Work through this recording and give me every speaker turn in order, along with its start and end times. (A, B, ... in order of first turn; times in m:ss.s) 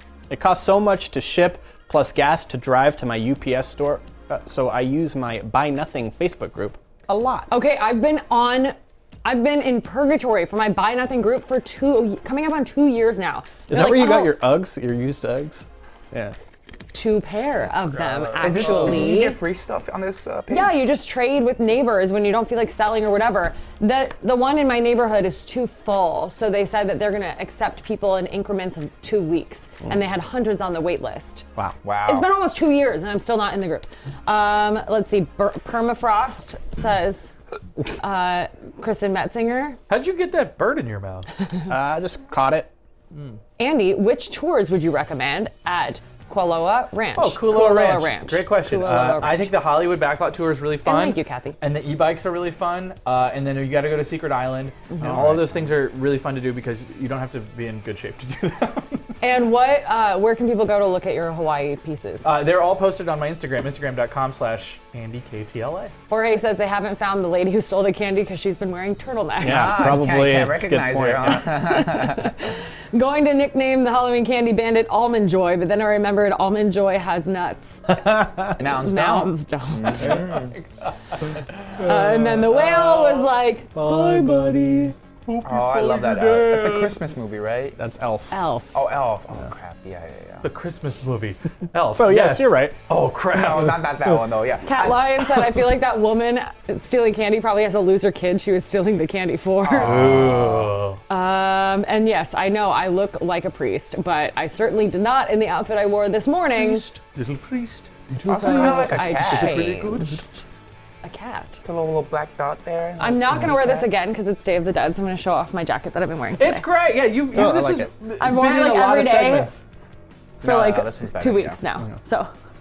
0:00.3-0:07.5 A
0:07.5-0:14.4 B
0:13.7-0:16.4 A
0:16.9-0:19.4 B
0:18.4-0:20.8 C
0:18.4-0:18.9 D
0:20.5-0:31.5 B
0:31.8-0:32.3 C
0:32.1-0:37.3 B
0:38.0-0:39.8 B
0:39.9-0:41.3 D
0:41.7-0:42.7 A
0:43.1-0:43.4 D
0:43.6-0:49.5 B
0:47.2-0:59.1 D
0:50.8-0:51.6 B
0:55.1-0:55.4 C
0:59.2-1:02.3 B
1:02.2-1:05.9 D
1:06.1-1:09.9 B
1:09.4-1:11.6 A
1:09.4-1:12.3 C
1:11.7-1:20.2 B
1:18.6-1:20.4 C
1:20.0-1:22.0 D
1:21.8-1:22.6 A
1:21.8-1:24.9 B
1:22.6-1:23.2 D
1:23.7-1:24.9 A
1:25.3-1:27.0 D
1:25.4-1:27.8 C
1:27.8-1:28.3 A
1:28.3-1:28.7 B
1:28.7-1:30.5 C
1:30.4-1:33.9 D
1:31.9-1:32.8 A
1:33.3-1:35.3 C
1:34.6-1:40.2 B
1:39.6-1:40.7 C
1:39.8-1:41.0 D
1:41.1-1:46.9 B
1:46.6-1:50.2 D
1:48.2-1:50.2 B
1:48.2-1:49.8 C
1:51.0-1:51.6 B
1:51.6-1:53.9 C
1:53.0-1:56.6 B
1:56.4-1:59.6 D
1:57.3-1:57.9 A
1:58.2-1:59.5 B
2:00.4-2:01.6 C
2:00.4-2:02.3 B